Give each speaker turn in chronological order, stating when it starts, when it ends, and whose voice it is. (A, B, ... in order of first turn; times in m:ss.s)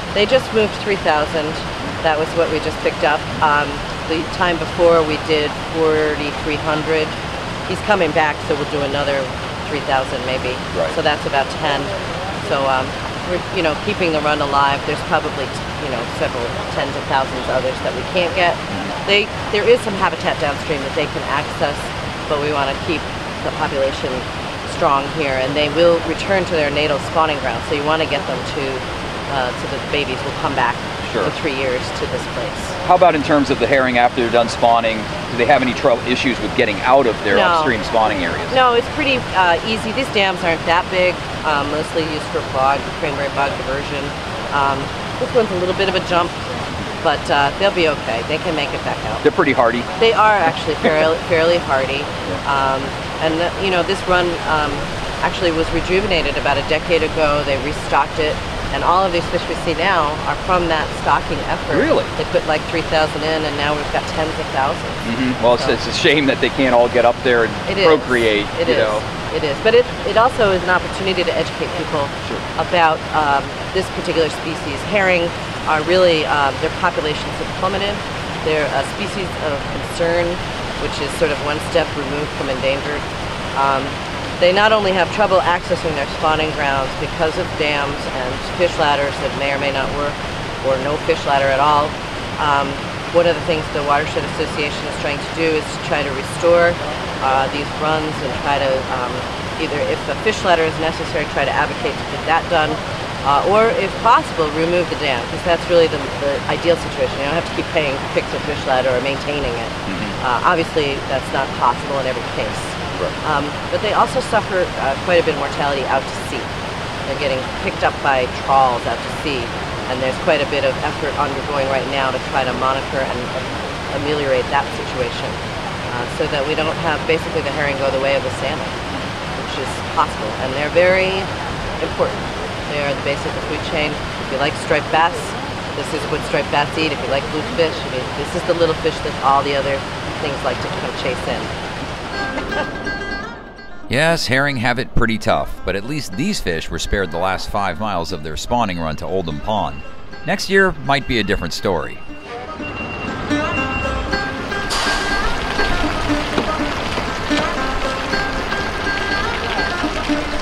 0:00.1-0:32.8 A
0:31.0-0:31.3 B
0:32.8-0:38.6 B
0:37.3-0:37.8 A
0:38.5-0:49.3 A
0:49.2-0:49.9 B
0:50.0-1:05.0 A
1:01.7-1:02.1 B
1:05.0-1:09.0 B
1:07.7-1:56.5 A
1:49.9-1:50.2 C
1:57.1-2:08.8 A
2:09.4-2:21.5 A
2:23.9-2:32.0 C